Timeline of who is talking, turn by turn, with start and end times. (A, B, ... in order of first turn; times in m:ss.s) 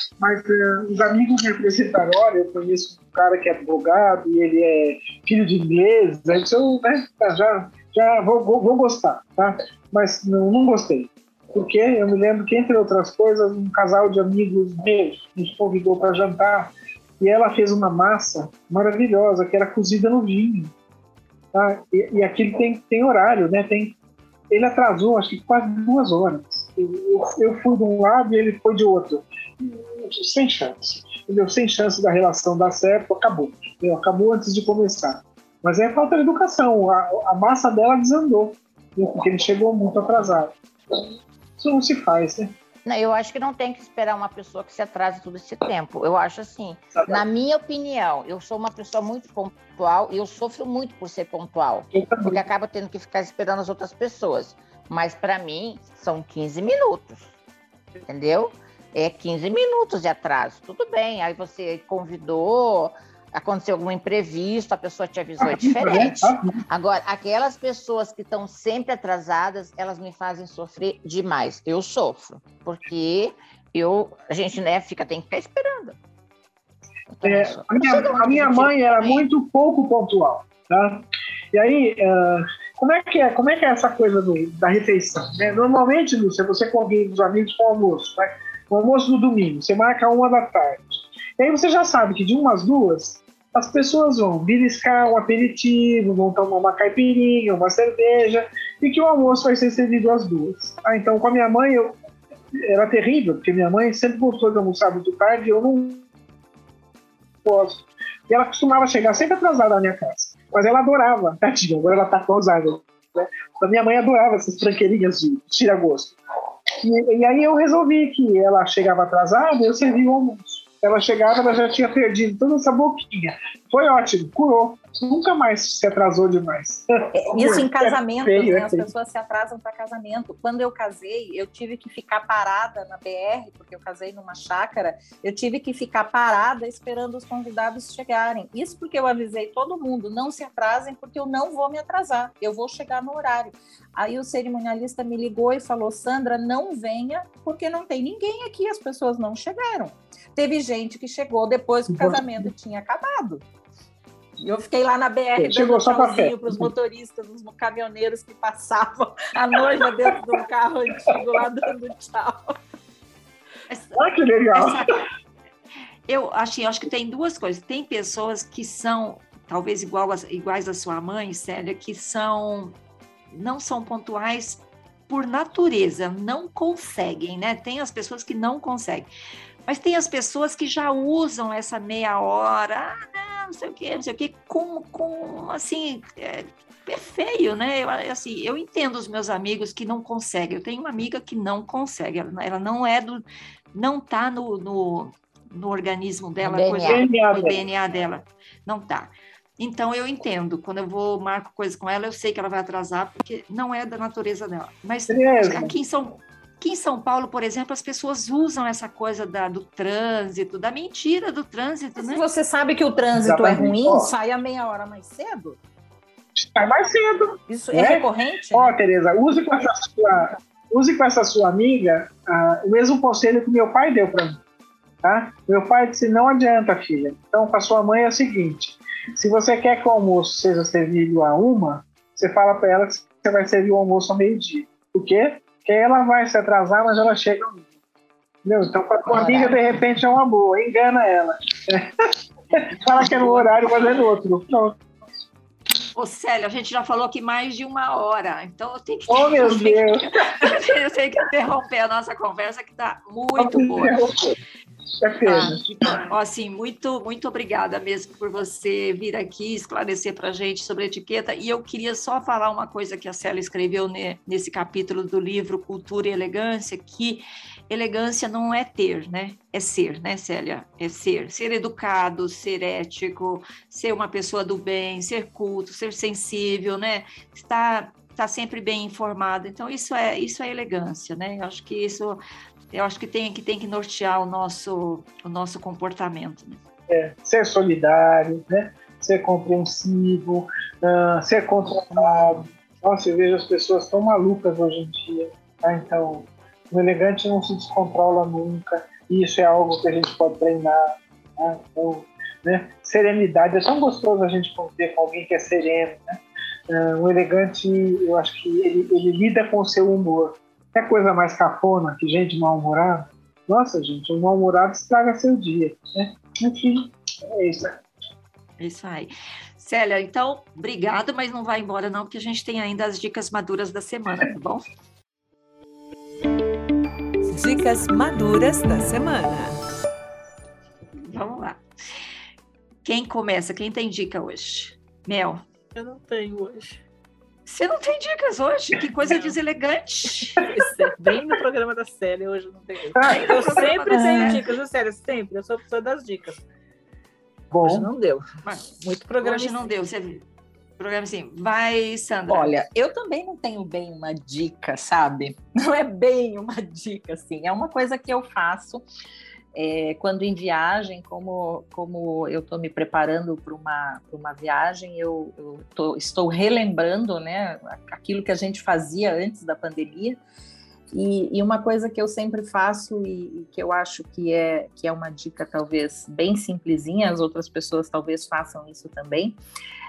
0:00.2-0:20.7 A
0:21.5-0:24.0 A
0:24.5-0:41.0 A
0:41.6-0:42.5 A
0:42.8-0:57.3 B
0:47.0-0:47.2 A
0:51.9-0:52.4 A
0:58.1-1:16.0 B
1:05.4-1:06.5 A
1:17.1-1:19.2 B
1:17.2-1:42.0 A
1:42.6-1:46.1 A
1:47.4-1:56.2 A
1:56.8-2:08.9 A
2:07.1-2:33.4 C
2:31.9-2:32.5 A
2:34.4-2:42.6 C
2:35.4-2:36.7 A
2:43.7-2:44.0 D
2:44.0-2:44.8 A
2:44.5-2:44.9 D
2:46.1-2:52.8 D
2:53.3-2:59.1 D
2:59.7-3:32.2 D
3:16.4-3:17.0 B
3:16.8-3:17.6 A
3:25.1-3:25.7 A
3:32.0-3:35.6 C
3:33.2-3:34.1 A
3:36.4-3:44.4 A
3:37.5-3:38.8 C
3:45.0-3:57.7 A
3:58.4-4:01.9 A
3:59.1-3:59.6 B
4:02.5-4:04.8 A
4:03.0-4:03.5 D
4:06.0-4:14.0 D
4:09.1-4:10.1 A
4:13.4-4:14.4 A
4:15.0-4:16.0 A
4:15.2-4:46.6 D
4:46.9-5:17.8 A
5:18.6-5:24.6 D
5:27.3-5:29.6 E
5:31.0-5:31.6 D
5:32.8-5:35.5 D
5:35.8-5:36.8 F
5:37.5-5:40.5 D
5:39.1-5:39.4 F
5:40.4-5:46.4 F
5:42.9-5:44.4 A
5:43.0-5:44.4 D
5:47.5-5:47.9 A
5:47.6-5:49.7 F
5:48.5-5:50.2 D
5:50.8-5:52.5 D
5:52.3-5:58.8 C
5:59.6-6:10.2 C
6:10.9-6:19.4 C